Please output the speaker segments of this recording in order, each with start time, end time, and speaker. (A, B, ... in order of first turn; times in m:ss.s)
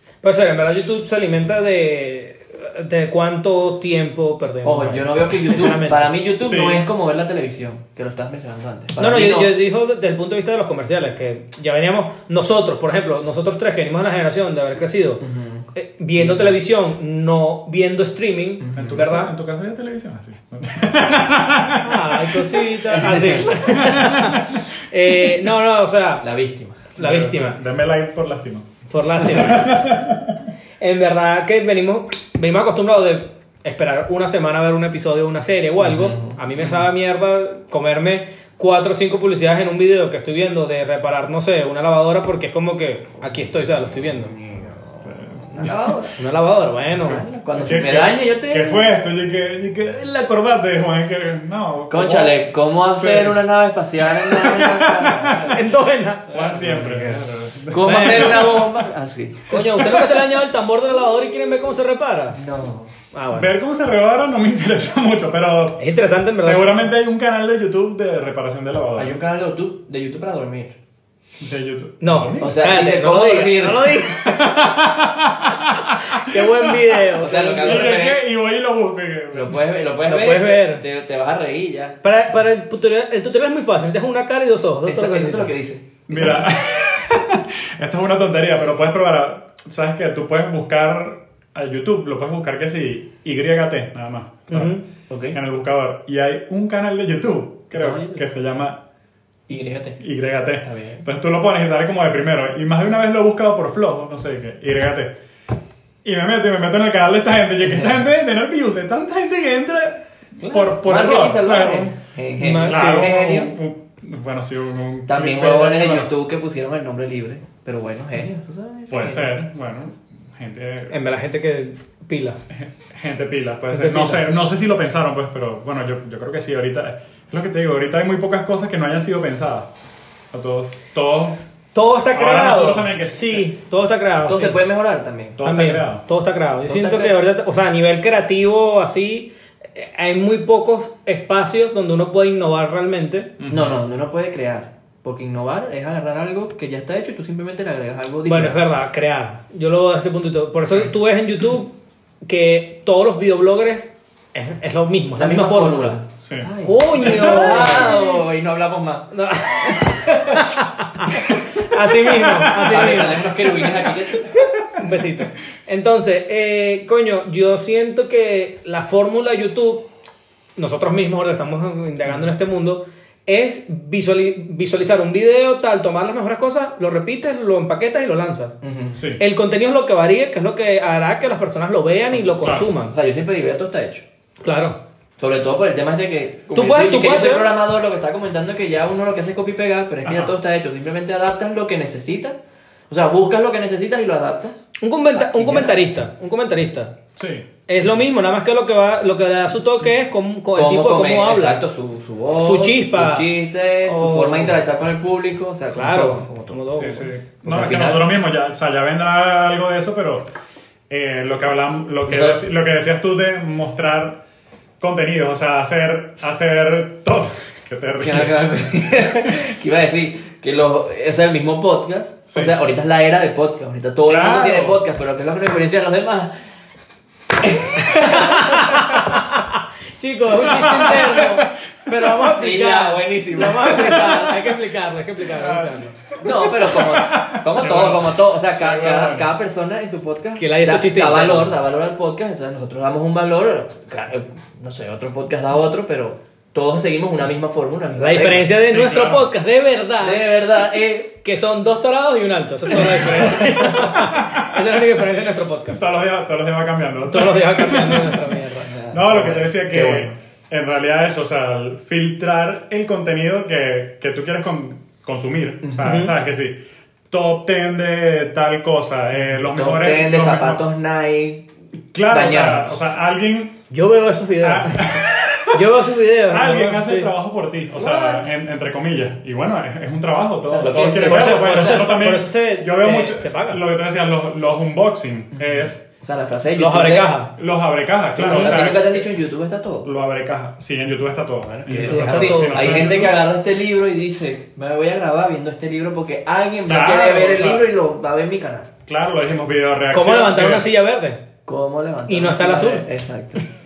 0:00.2-0:06.1 A
0:04.6-0:09.5 B
0:06.4-0:06.8 C
0:09.0-0:15.2 A
0:15.2-0:16.6 B
0:15.7-0:19.3 A
0:18.6-0:19.0 B
0:18.8-0:22.8 C
0:21.8-0:26.3 A
0:22.9-0:23.6 B
0:23.5-0:24.7 C
0:26.2-0:26.9 B
0:27.0-0:27.6 A
0:27.0-0:30.4 C
0:28.9-0:29.8 A
0:30.8-0:44.3 A
0:35.8-0:36.4 B
0:36.6-0:36.9 C
0:44.5-0:44.7 B
0:45.0-0:45.7 C
0:45.4-0:46.2 B
0:46.2-0:47.2 A
0:47.0-0:48.9 B
0:47.5-0:52.4 C
0:51.9-0:55.6 B
0:53.0-0:53.4 C
0:54.0-0:55.6 C
0:55.5-0:56.4 A
0:56.3-0:58.8 C
0:56.4-0:57.2 B
0:57.7-0:59.8 B
0:57.8-0:58.6 A
0:59.5-1:02.4 A
1:02.3-1:02.9 B
1:03.1-1:03.5 A
1:03.3-1:05.8 C
1:05.8-1:06.7 A
1:06.4-1:09.2 C
1:09.0-1:10.8 B
1:11.4-1:12.6 C
1:12.0-1:14.8 A
1:12.4-1:14.4 B
1:14.3-1:19.6 C
1:15.6-1:17.9 A
1:17.2-1:18.2 B
1:19.3-1:22.0 B
1:20.1-1:20.8 A
1:22.0-1:25.5 A
1:24.9-1:26.4 B
1:26.1-1:34.8 C
1:34.5-1:34.8 A
1:35.1-1:35.4 B
1:35.3-1:38.8 C
1:37.7-1:38.2 B
1:39.5-1:40.0 B
1:40.0-1:45.1 C
1:40.6-1:41.1 B
1:46.0-1:51.9 C
1:50.4-1:53.5 B
1:52.4-1:53.1 A
1:52.6-1:56.1 C
1:55.1-1:59.3 B
1:58.9-2:01.0 C
2:00.9-2:02.4 A
2:02.5-2:09.7 C
2:03.7-2:04.3 A
2:10.3-2:11.4 C
2:11.8-2:14.6 A
2:12.1-2:13.5 C
2:14.2-2:15.4 B
2:15.4-2:16.0 C
2:15.4-2:23.3 A
2:16.7-2:17.2 B
2:23.4-2:23.8 C
2:23.5-2:28.6 B
2:28.3-2:36.0 A
2:35.2-2:40.5 B
2:36.2-2:36.5 C
2:36.6-2:38.2 A
2:37.0-2:37.6 C
2:39.1-2:43.7 A
2:41.3-2:43.0 C
2:42.6-2:44.4 B
2:44.7-2:49.9 A
2:50.6-2:58.6 A
2:58.6-2:59.0 B
2:59.0-2:59.2 C
2:59.2-3:02.9 A
3:02.1-3:04.0 B
3:02.4-3:02.7 C
3:04.4-3:04.8 A
3:05.2-3:12.4 B
3:06.6-3:07.6 A
3:10.0-3:10.4 C
3:12.9-3:15.8 B
3:14.8-3:17.0 A
3:17.2-3:17.6 C
3:17.7-3:21.6 A
3:20.5-3:26.6 B
3:22.4-3:23.3 A
3:23.8-3:24.6 A
3:25.8-3:27.1 A
3:26.7-3:30.3 C
3:27.4-3:28.1 B
3:30.9-3:34.2 C
3:32.0-3:32.4 B
3:34.8-3:38.5 C
3:38.0-3:46.3 B
3:42.3-3:42.6 C
3:44.1-3:44.8 C
3:47.5-3:49.2 B
3:47.8-3:56.0 A
3:50.3-3:52.0 C
3:52.3-3:54.5 B
3:55.2-3:59.3 C
3:56.2-4:08.5 B
4:00.4-4:01.6 A
4:08.0-4:10.4 A
4:08.5-4:09.3 C
4:10.0-4:11.1 B
4:11.2-4:15.8 A
4:12.8-4:14.6 C
4:15.7-4:18.3 C
4:17.1-4:18.7 A
4:18.6-4:20.1 B
4:18.9-4:26.6 C
4:25.6-4:25.9 B
4:25.8-4:26.1 A
4:27.1-4:30.6 C
4:29.5-4:31.5 B
4:31.9-4:33.6 C
4:32.1-4:32.7 B
4:33.7-4:37.1 A
4:34.4-4:45.8 C
4:37.8-4:38.2 A
4:40.4-4:42.0 B
4:41.0-4:43.6 A
4:46.0-4:47.1 B
4:46.6-4:47.3 A
4:47.4-4:49.1 C
4:48.2-4:49.9 B
4:49.8-4:53.2 C
4:51.6-4:58.7 B
4:51.8-4:52.9 A
4:56.7-4:57.7 C
4:58.9-5:00.7 C
4:59.9-5:01.2 A
5:01.5-5:03.4 B
5:02.1-5:02.9 A